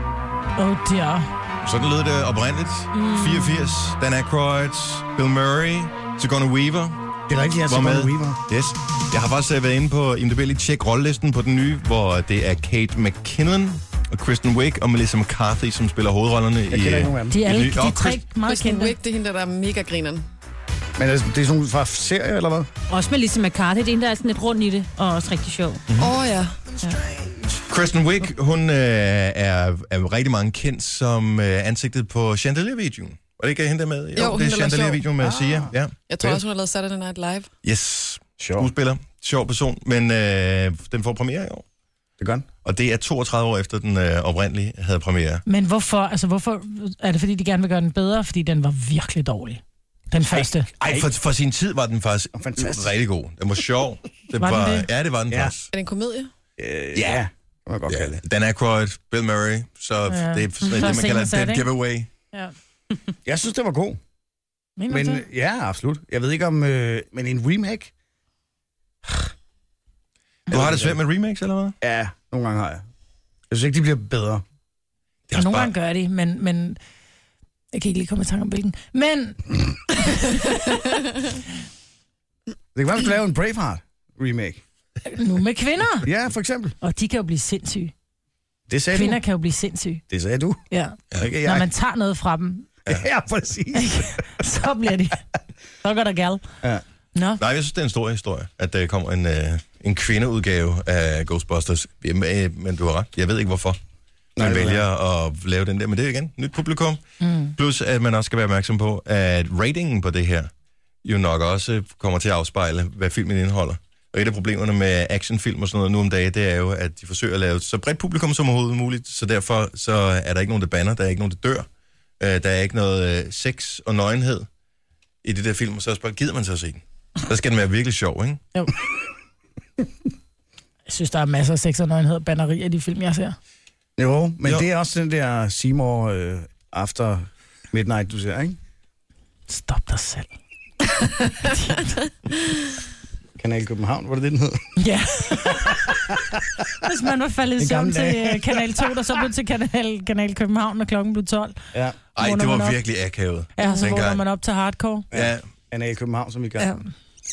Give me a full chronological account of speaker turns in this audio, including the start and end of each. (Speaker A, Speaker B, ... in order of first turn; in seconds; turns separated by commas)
Speaker A: 0.6-1.3, Speaker B: 1.6-7.0, Speaker C: 3.0-3.4, Speaker D: 7.3-8.4, Speaker B: 7.7-18.2, Speaker D: 16.7-17.4, Speaker A: 17.3-19.0, Speaker E: 18.4-20.3, Speaker D: 21.0-22.7, Speaker C: 22.9-25.8, Speaker E: 26.0-26.6, Speaker B: 27.7-35.9, Speaker E: 34.1-35.0, Speaker D: 35.2-36.4, Speaker E: 36.1-37.5, Speaker B: 37.6-41.6, Speaker D: 38.4-38.7, Speaker D: 42.2-42.5, Speaker B: 42.6-45.4, Speaker A: 45.5-50.7, Speaker D: 50.3-51.1, Speaker B: 50.8-55.7, Speaker D: 52.3-52.9, Speaker A: 54.4-54.9, Speaker D: 55.3-55.5, Speaker E: 55.7-56.3, Speaker D: 56.6-58.2, Speaker B: 57.9-62.1, Speaker A: 60.1-61.7, Speaker D: 63.2-64.0, Speaker A: 64.8-65.2, Speaker D: 64.9-67.9, Speaker B: 70.5-71.8, Speaker D: 70.5-71.0, Speaker D: 71.8-72.8, Speaker D: 73.5-74.4, Speaker B: 75.3-75.7, Speaker A: 75.3-76.8, Speaker A: 77.7-81.0, Speaker D: 82.8-84.6, Speaker A: 85.1-86.1, Speaker D: 86.0-86.8, Speaker A: 86.8-87.9, Speaker D: 88.7-89.2, Speaker A: 88.9-90.0, Speaker D: 90.1-90.6, Speaker A: 90.7-92.7, Speaker D: 91.2-91.7, Speaker D: 92.9-94.3, Speaker A: 93.8-95.2, Speaker A: 95.8-96.4, Speaker A: 97.2-97.4, Speaker B: 97.4-103.8, Speaker D: 104.4-104.8, Speaker B: 104.4-107.0, Speaker A: 107.2-107.5, Speaker B: 107.5-110.5, Speaker B: 111.0-121.7, Speaker B: 122.2-124.5, Speaker B: 125.2-128.4, Speaker A: 130.9-133.4, Speaker D: 134.0-138.6, Speaker A: 139.5-140.3, Speaker A: 141.4-141.9, Speaker D: 143.4-144.7, Speaker A: 144.8-145.9, Speaker D: 145.5-146.7, Speaker A: 146.8-151.6, Speaker D: 147.6-148.8, Speaker B: 152.2-154.2, Speaker A: 152.2-152.8, Speaker A: 153.6-155.1, Speaker D: 155.1-156.7, Speaker B: 155.1-155.5, Speaker A: 156.6-156.9